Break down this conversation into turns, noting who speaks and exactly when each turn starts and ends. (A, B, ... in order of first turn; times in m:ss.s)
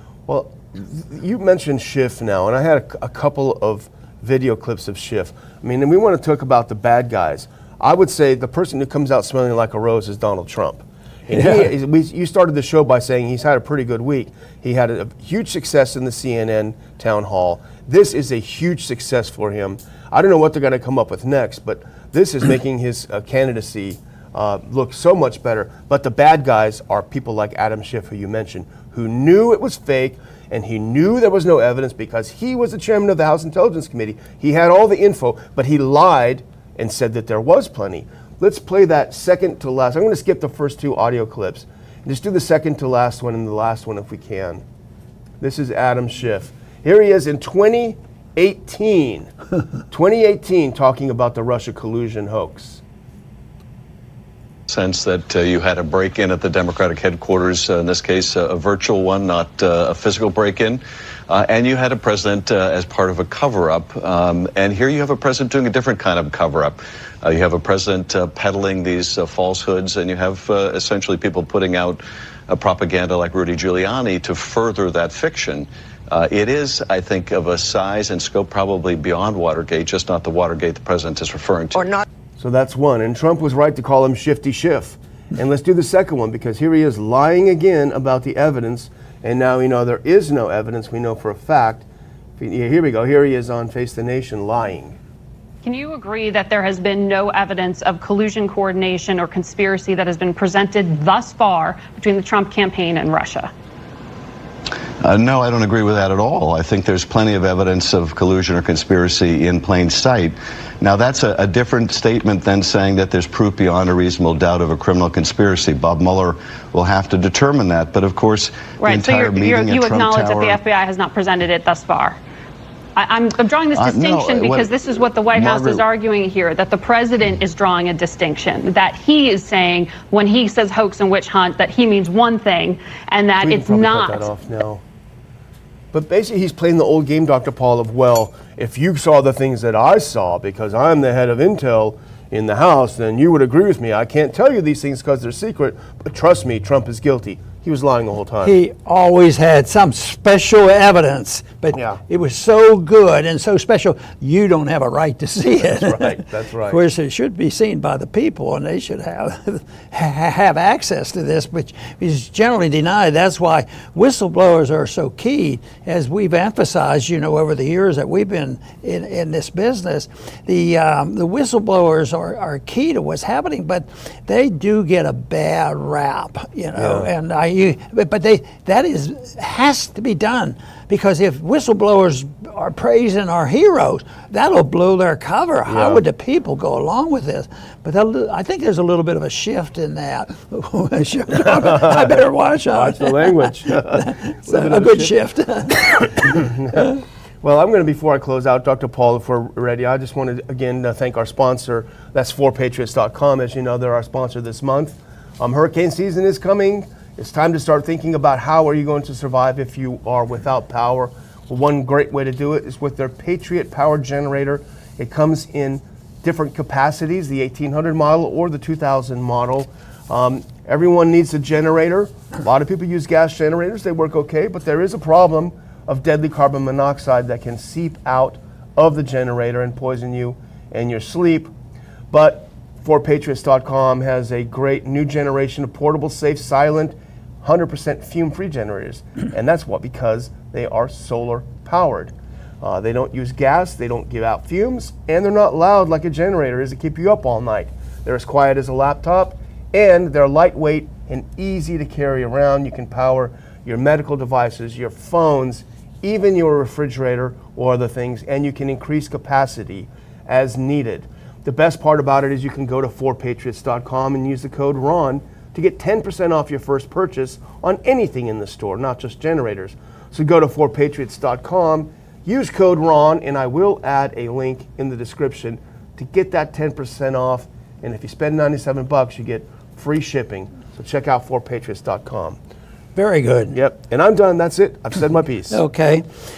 0:00.3-0:44.6 A
0:11.3-0:11.7 B
0:45.4-0:49.3 A
0:49.9-0:52.8 A
0:54.7-1:22.0 C
1:22.4-1:31.9 A
1:32.4-1:35.0 A
1:35.6-1:43.5 D
1:45.0-2:00.6 C
1:58.8-2:02.2 D
2:03.0-2:14.3 D
2:03.8-2:04.7 C
2:05.3-2:05.8 C
2:13.4-2:14.8 A
2:15.9-2:28.5 A
2:28.4-3:16.4 B
2:31.7-2:32.0 A
2:35.6-2:36.8 A
2:56.8-2:57.1 A
3:05.7-3:06.0 A
3:11.4-3:12.2 A
3:12.7-3:15.2 A
3:16.2-3:16.9 A
3:17.4-3:51.5 A
3:52.1-4:42.4 A
4:43.0-4:43.6 B
4:43.5-4:45.6 A
4:45.5-4:46.0 B